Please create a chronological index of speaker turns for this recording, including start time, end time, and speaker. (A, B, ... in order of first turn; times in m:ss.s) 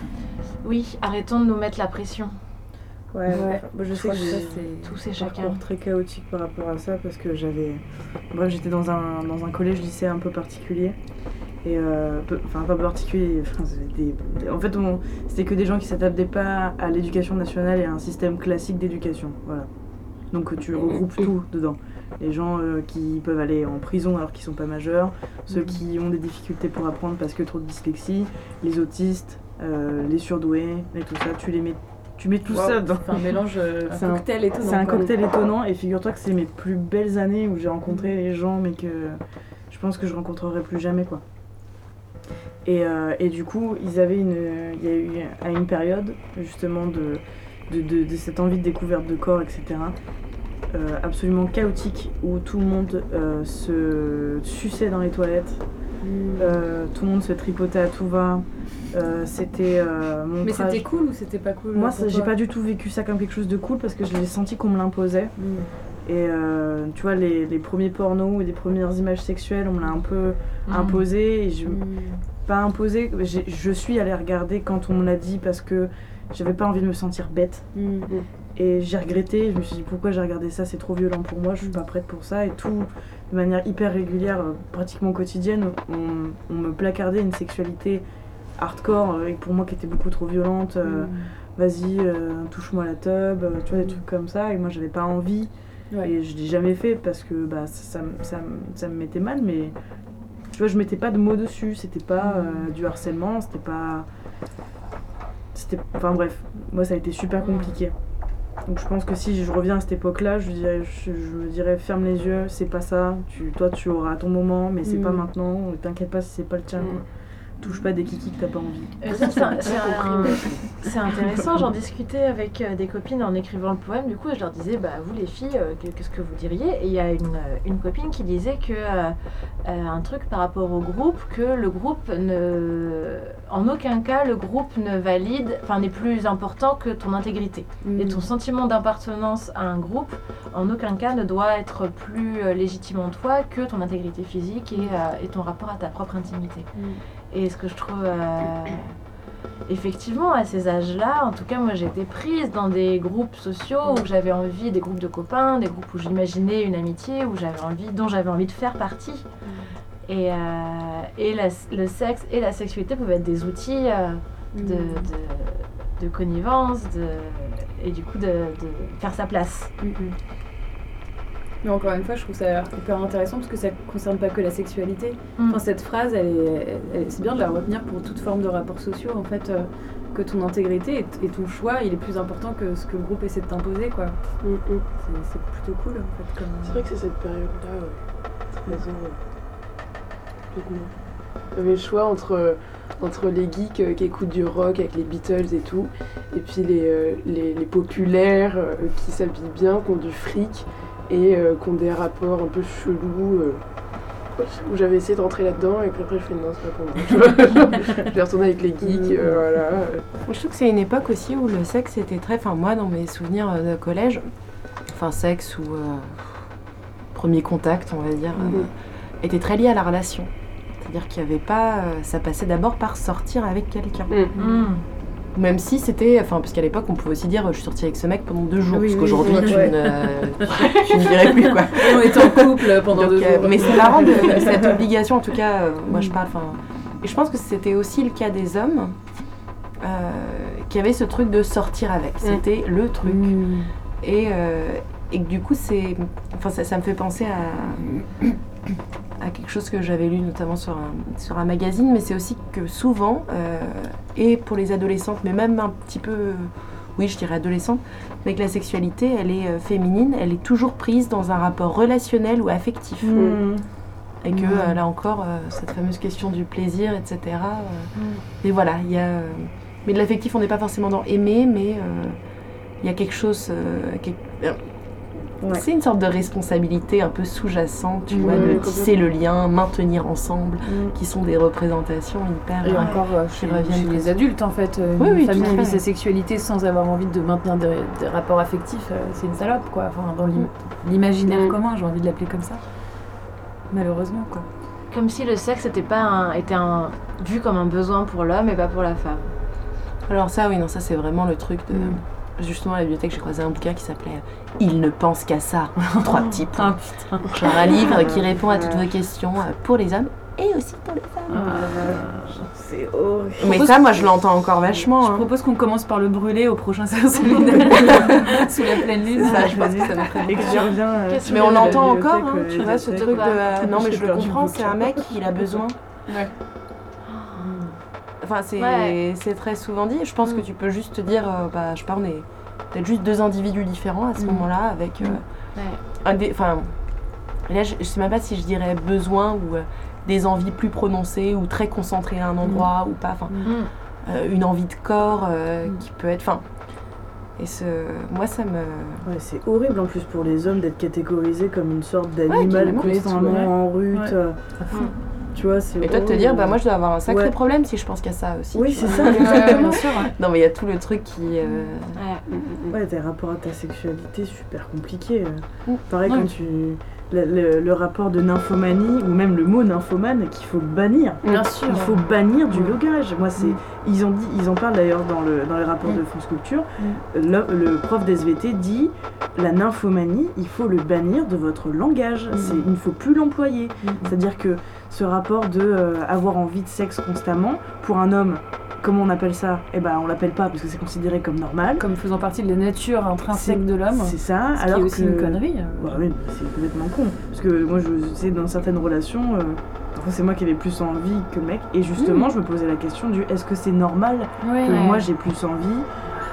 0:00.6-0:02.4 A
0:03.1-0:11.0 B
0:03.3-0:05.0 C
0:04.0-0:05.6 A
0:11.6-0:19.7 B
0:20.3-0:39.2 B
0:32.5-0:35.1 C
0:39.7-0:41.2 B
0:42.6-0:50.0 B
0:50.7-0:55.6 B
0:56.0-0:56.5 C
0:56.4-1:00.8 B
1:00.4-1:02.3 C
1:01.7-1:05.3 B
1:05.4-1:05.7 C
1:06.0-1:11.8 B
1:10.7-1:11.0 A
1:11.7-1:12.2 C
1:12.4-1:17.7 B
1:17.7-1:18.1 C
1:18.5-1:28.0 B
1:28.6-1:39.8 B
1:30.8-1:31.3 C
1:40.5-1:44.1 B
1:42.2-1:42.7 C
1:45.5-1:47.9 B
1:47.4-1:47.7 A
1:48.6-1:57.0 B
1:54.8-1:55.3 C
1:57.6-1:59.3 B
1:59.0-2:26.7 A
1:59.2-2:00.7 D
2:17.8-2:18.2 C
2:26.7-2:27.0 C
2:27.3-2:28.9 A
2:29.7-2:39.3 A
2:39.4-2:39.7 C
2:40.0-2:49.7 A
2:44.5-2:45.1 C
2:49.8-2:50.2 C
2:51.6-3:04.2 C
3:04.4-3:04.8 D
3:05.0-3:06.7 B
3:05.2-3:06.7 C
3:06.6-3:09.2 D
3:10.5-3:10.9 D
3:11.5-3:23.6 D
3:24.4-3:30.0 D
3:30.3-3:34.3 E
3:34.9-3:36.5 E
3:37.1-3:38.7 E
3:39.2-3:44.1 E
3:44.1-3:44.4 D
3:44.3-3:44.6 C
3:44.4-3:44.8 A
3:45.3-3:59.0 E
3:48.7-3:54.6 C
3:49.2-3:49.6 D
3:49.4-3:49.7 B
3:55.9-3:56.1 C
3:59.8-4:03.4 E
4:03.0-4:03.7 C
4:04.0-4:08.3 E
4:09.2-4:23.4 E
4:23.0-4:23.6 B
4:23.1-4:23.4 D
4:24.2-4:32.2 E
4:24.3-4:24.8 C
4:32.8-4:34.6 E
4:35.4-4:44.2 E
4:38.1-4:38.6 C
4:38.2-4:38.9 D
4:40.6-4:41.0 B
4:42.6-4:52.6 C
4:45.0-4:45.8 E
4:51.2-4:51.6 D
4:53.7-4:54.5 C
4:54.9-4:59.3 A
5:00.1-5:11.9 E
5:01.7-5:02.0 C
5:05.8-5:07.9 C
5:07.8-5:08.9 B
5:11.3-5:12.5 C
5:11.3-5:14.0 B
5:13.4-5:15.3 E
5:14.8-5:20.3 C
5:17.8-5:18.4 E
5:19.1-5:25.8 E
5:19.2-5:25.5 B
5:20.4-5:21.9 A
5:22.9-5:23.7 A
5:26.1-5:26.3 D
5:27.1-5:27.6 A
5:27.4-5:27.7 C
5:28.2-5:36.9 E
5:28.6-5:29.0 A
5:34.2-5:34.5 C
5:35.6-5:35.8 A
5:37.4-5:49.1 E
5:42.4-5:42.7 C
5:43.3-5:43.5 C
5:43.4-5:43.7 A
5:49.0-5:54.6 B
5:52.3-5:52.6 E
5:52.5-5:54.9 C
5:52.6-5:53.5 D
5:55.3-5:57.3 B
5:55.8-6:02.0 E
5:58.5-5:59.9 B
5:58.8-6:00.0 C
5:58.9-5:59.6 A
5:59.1-5:59.7 D
6:01.9-6:02.2 A
6:02.3-6:02.8 D
6:02.7-6:31.8 B
6:11.2-6:11.6 D
6:11.3-6:12.0 C
6:11.4-6:11.9 A
6:22.3-6:22.6 C
6:23.8-6:24.1 C
6:31.8-6:36.0 C
6:33.3-6:45.9 B
6:44.4-6:44.9 C
6:44.7-6:45.0 A